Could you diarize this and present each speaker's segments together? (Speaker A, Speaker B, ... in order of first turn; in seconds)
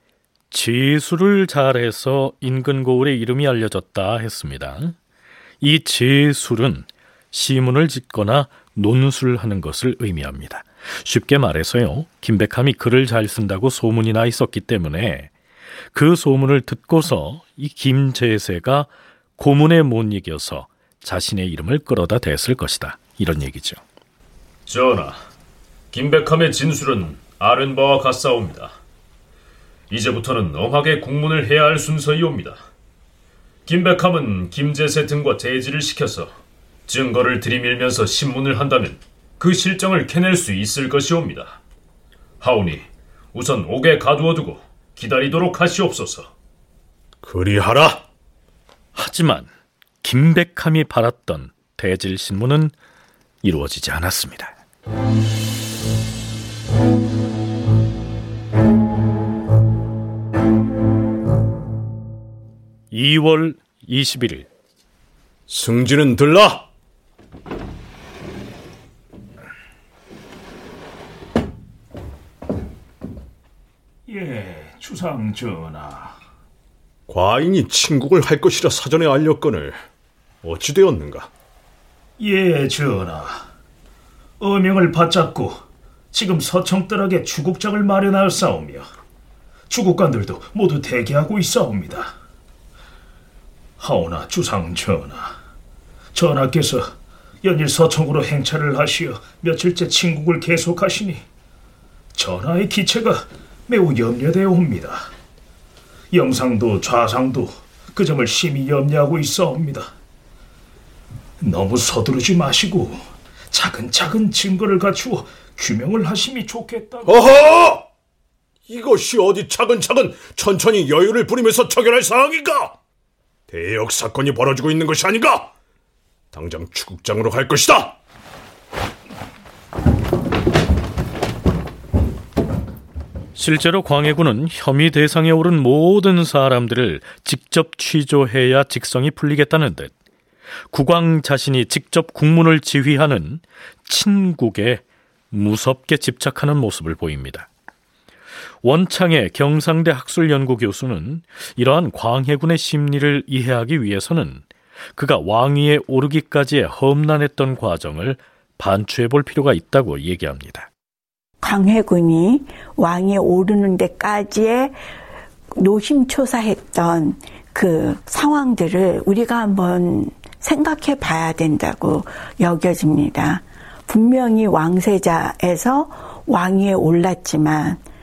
Speaker A: 0.5-5.0, 5.6-15.3, 15.9-23.8, 49.0-49.5, 50.0-52.7, 53.4-54.5, 62.9-64.5, 133.3-139.9, 140.7-147.5, 148.6-154.4, 154.9-160.7
Speaker B: 24.7-25.2, 25.9-28.8, 29.9-32.6, 33.7-36.3, 36.9-41.6, 42.4-46.3
Speaker C: 47.2-48.0, 65.5-66.7, 77.1-79.8, 80.4-81.3, 117.1-117.8, 118.7-122.8, 123.5-125.5, 126.3-128.0
Speaker D: 74.1-76.1, 82.2-83.5, 84.4-85.6, 86.1-88.9, 89.7-92.1, 93.8-95.4, 96.1-101.2, 102.1-105.1, 106.1-109.9, 111.4-117.1
Speaker E: 161.4-164.8, 165.5-177.8